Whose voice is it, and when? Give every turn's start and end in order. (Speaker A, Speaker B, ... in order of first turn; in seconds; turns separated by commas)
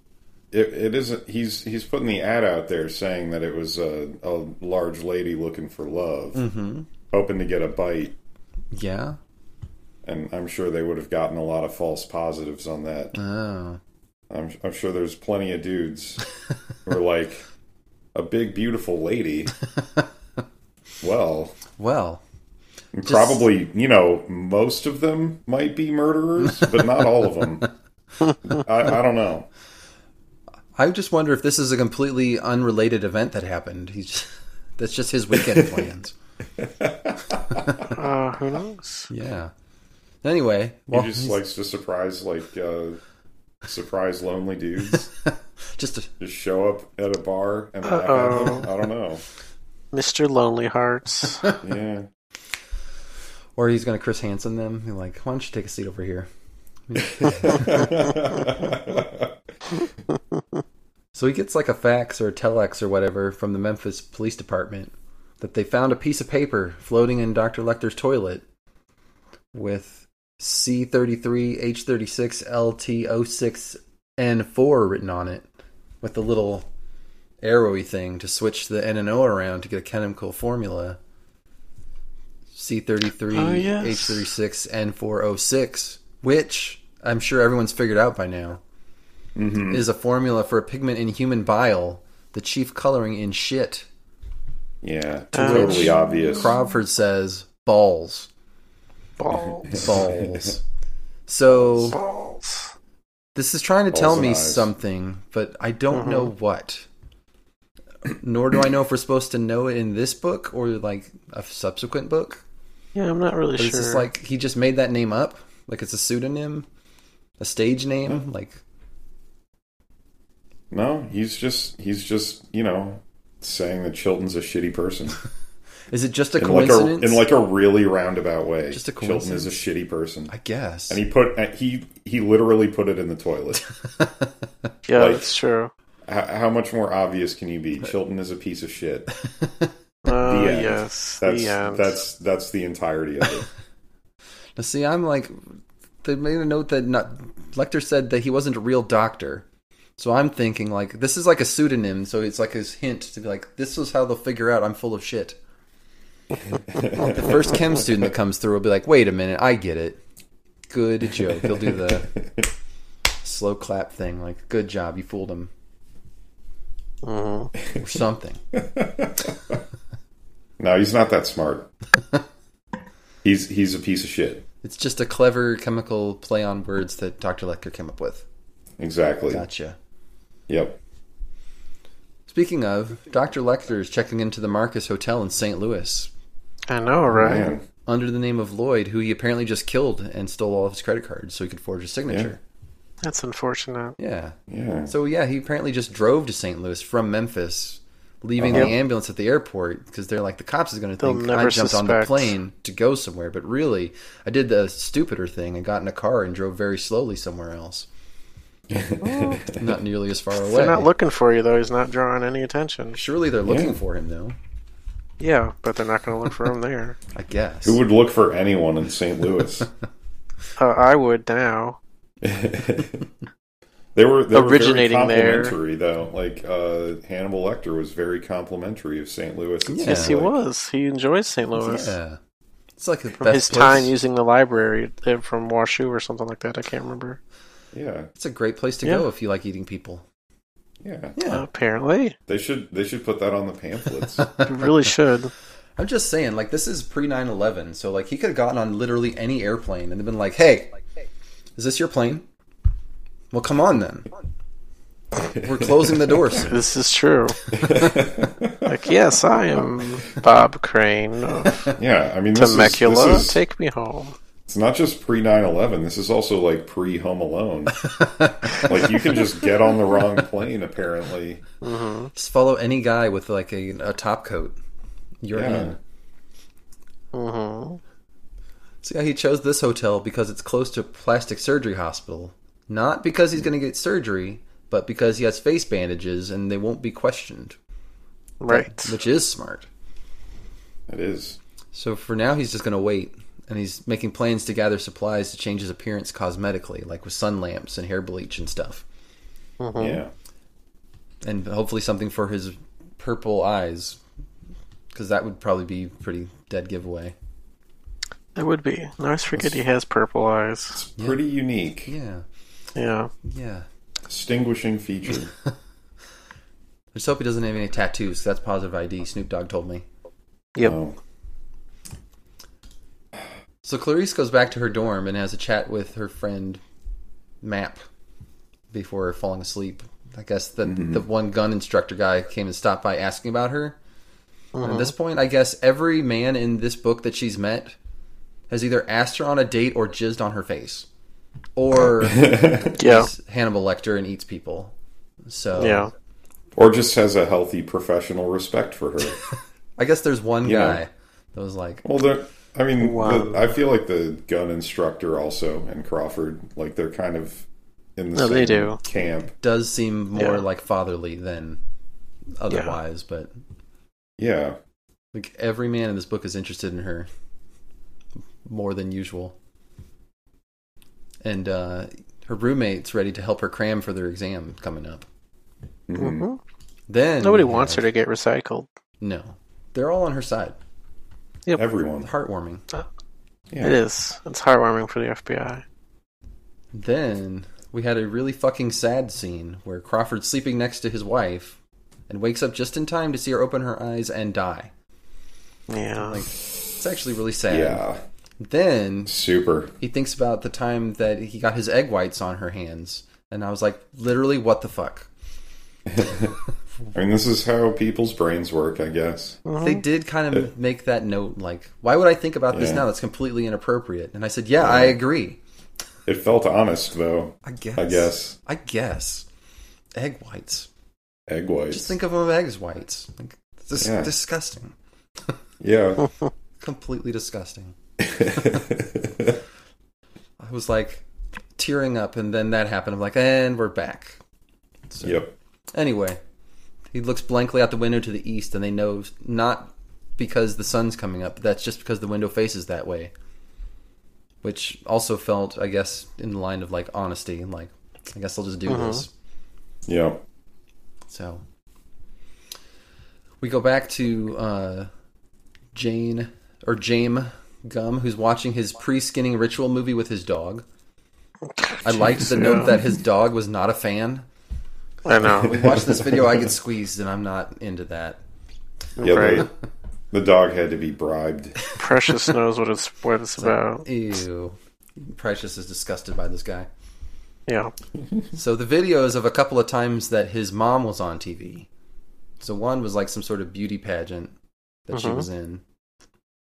Speaker A: 0.5-6.4, Speaker B: 6.3-6.9, Speaker A: 7.1-8.2, Speaker B: 8.7-9.2, Speaker A: 10.1-13.2, Speaker B: 13.1-13.8, Speaker A: 14.3-16.3, Speaker A: 16.9-17.4, Speaker A: 18.1-19.6, Speaker B: 19.8-20.1, Speaker A: 21.0-21.6, Speaker B: 21.8-22.2, Speaker A: 22.9-27.7, Speaker B: 23.1-23.5, Speaker A: 28.4-29.5, Speaker B: 30.8-36.1, Speaker A: 36.6-37.7, Speaker B: 37.5-38.0, Speaker C: 37.9-39.1, Speaker B: 39.1-39.5, Speaker B: 40.2-41.4, Speaker A: 40.9-43.0, Speaker A: 43.6-45.1, Speaker B: 44.9-46.1, Speaker A: 46.2-49.2, Speaker C: 47.9-48.7, Speaker C: 49.9-51.5, Speaker A: 51.5-52.1, Speaker B: 53.6-56.3, Speaker B: 56.9-58.0, Speaker A: 57.1-59.3, Speaker B: 61.1-68.5, Speaker B: 69.5-75.5, Speaker B: 76.0-76.7, Speaker B: 77.4-81.0, Speaker B: 82.5-88.6, Speaker C: 83.3-84.2, Speaker A: 89.4-89.8, Speaker B: 89.7-93.9, Speaker A: 94.8-96.6, Speaker C: 95.3-96.0, Speaker B: 95.4-98.3, Speaker C: 99.2-99.9, Speaker A: 99.4-100.5, Speaker B: 99.7-100.6, Speaker B: 101.3-102.0, Speaker C: 101.9-102.7, Speaker B: 103.3-106.9, Speaker A: 103.9-104.7, Speaker C: 105.9-106.3, Speaker B: 108.0-112.4, Speaker C: 113.0-114.1, Speaker B: 113.6-116.7, Speaker B: 117.4-118.6, Speaker A: 120.7-125.2, Speaker B: 125.9-127.2, Speaker A: 126.4-130.3, Speaker B: 128.7-129.6, Speaker B: 130.3-131.0, Speaker A: 130.9-133.7, Speaker B: 134.0-134.3, Speaker C: 134.9-135.7, Speaker A: 134.9-135.3, Speaker A: 136.1-139.1, Speaker B: 139.2-139.7, Speaker C: 140.1-141.9, Speaker A: 140.2-143.5, Speaker B: 144.6-149.5, Speaker B: 150.0-155.4, Speaker A: 156.5-157.9, Speaker B: 157.0-160.0, Speaker B: 160.7-162.1, Speaker A: 161.6-162.3, Speaker B: 163.2-165.5, Speaker C: 167.0-167.5, Speaker B: 167.8-168.4, Speaker A: 168.5-169.6, Speaker A: 170.6-171.7, Speaker A: 173.2-174.4, Speaker B: 174.6-178.2, Speaker A: 178.8-179.4, Speaker B: 179.3-179.8, Speaker A: 180.5-180.8, Speaker B: 182.3-186.1, Speaker C: 186.7-187.5, Speaker A: 187.1-187.6, Speaker B: 187.2-192.4, Speaker C: 193.0-194.0, Speaker B: 194.0-207.9, Speaker A: 194.5-194.9, Speaker A: 198.4-198.8, Speaker C: 201.0-202.3, Speaker A: 208.7-209.7, Speaker C: 209.0-209.4, Speaker B: 209.5-210.9, Speaker C: 210.4-213.0, Speaker B: 212.9-214.4, Speaker A: 213.4-213.7, Speaker C: 215.2-217.0, Speaker B: 217.1-217.8, Speaker A: 217.7-219.7, Speaker C: 220.6-221.8, Speaker A: 222.2-223.1, Speaker A: 223.9-230.3, Speaker C: 224.3-225.6, Speaker B: 229.7-230.2, Speaker C: 229.8-231.9, Speaker B: 231.6-232.2, Speaker B: 232.8-233.9, Speaker C: 233.2-237.2, Speaker A: 237.7-238.1, Speaker B: 238.2-240.1, Speaker A: 240.8-241.2, Speaker B: 241.2-241.4, Speaker C: 241.2-242.2, Speaker A: 242.3-244.4, Speaker B: 244.2-244.9, Speaker C: 244.3-245.3, Speaker B: 245.8-250.8, Speaker B: 251.6-252.3, Speaker B: 253.3-254.1, Speaker B: 255.4-256.6, Speaker C: 256.4-257.4, Speaker A: 257.5-258.7, Speaker C: 258.7-261.7, Speaker B: 261.5-261.7, Speaker A: 261.8-263.4, Speaker C: 262.3-264.2, Speaker A: 264.5-267.9, Speaker B: 267.8-269.2, Speaker A: 268.5-271.4, Speaker C: 271.6-272.1, Speaker B: 272.1-274.6, Speaker B: 275.2-275.8, Speaker A: 275.3-275.8, Speaker C: 277.1-277.8, Speaker B: 278.8-287.6, Speaker C: 288.4-288.9, Speaker B: 288.5-289.7, Speaker A: 290.9-291.4, Speaker B: 291.7-298.8, Speaker C: 299.6-300.0, Speaker A: 299.8-300.1, Speaker B: 301.2-304.0, Speaker B: 304.9-307.1, Speaker C: 308.4-310.8, Speaker A: 310.8-311.9, Speaker B: 311.9-312.2, Speaker C: 312.8-313.1, Speaker B: 313.2-313.7, Speaker A: 314.1-315.3, Speaker B: 316.9-319.9, Speaker A: 320.6-321.0, Speaker B: 323.6-326.6, Speaker B: 327.4-327.8, Speaker B: 328.7-333.8, Speaker A: 330.7-331.0, Speaker C: 334.6-334.9, Speaker B: 334.6-337.8, Speaker B: 338.5-340.9, Speaker B: 341.6-344.8, Speaker A: 341.8-342.8, Speaker C: 342.8-343.1, Speaker B: 345.3-345.9, Speaker C: 345.6-345.9, Speaker A: 346.6-349.2, Speaker B: 349.8-351.8, Speaker A: 350.4-350.8, Speaker A: 351.8-359.3, Speaker C: 352.8-353.5, Speaker C: 358.1-358.8, Speaker B: 359.3-361.6, Speaker C: 360.1-360.4, Speaker B: 362.4-363.3, Speaker C: 362.5-362.8, Speaker A: 364.2-364.6, Speaker B: 365.1-367.1, Speaker B: 368.4-369.4, Speaker B: 371.2-375.1, Speaker A: 375.9-376.3, Speaker C: 376.0-376.4, Speaker B: 376.9-377.9, Speaker C: 377.2-378.7, Speaker B: 379.0-380.6, Speaker A: 381.6-382.1, Speaker B: 382.0-382.6, Speaker A: 383.5-383.8, Speaker C: 383.6-385.6, Speaker B: 386.7-391.6, Speaker B: 392.1-394.7, Speaker C: 395.7-396.2, Speaker B: 396.0-397.8, Speaker A: 397.5-398.0, Speaker B: 398.4-399.1, Speaker A: 399.1-399.7, Speaker B: 399.8-405.1, Speaker A: 405.9-406.4, Speaker A: 406.9-409.4, Speaker C: 409.5-409.8, Speaker B: 409.6-415.4, Speaker A: 412.5-412.8, Speaker A: 414.6-415.0, Speaker A: 416.1-418.4, Speaker B: 417.4-419.3, Speaker B: 420.0-420.7, Speaker A: 421.3-422.0, Speaker B: 421.7-424.8, Speaker A: 423.8-424.1, Speaker A: 425.6-426.1, Speaker B: 426.6-427.8, Speaker A: 428.0-429.4, Speaker B: 430.4-431.1, Speaker B: 431.6-434.2, Speaker B: 434.9-435.2, Speaker A: 435.0-435.3, Speaker B: 435.7-436.2, Speaker B: 436.9-443.1, Speaker B: 444.4-449.1, Speaker C: 448.7-449.1, Speaker A: 449.9-450.2, Speaker B: 451.1-451.4, Speaker B: 453.4-454.9, Speaker B: 455.7-460.6, Speaker C: 461.6-462.8, Speaker B: 461.8-464.3, Speaker C: 465.1-465.6, Speaker B: 465.2-468.2, Speaker A: 465.6-466.2, Speaker C: 469.0-469.5, Speaker A: 469.0-469.5, Speaker A: 470.1-471.6, Speaker C: 471.8-473.9, Speaker B: 473.4-476.7, Speaker C: 477.5-477.7, Speaker B: 478.3-481.7, Speaker B: 482.4-484.4, Speaker B: 484.9-485.6, Speaker C: 484.9-485.2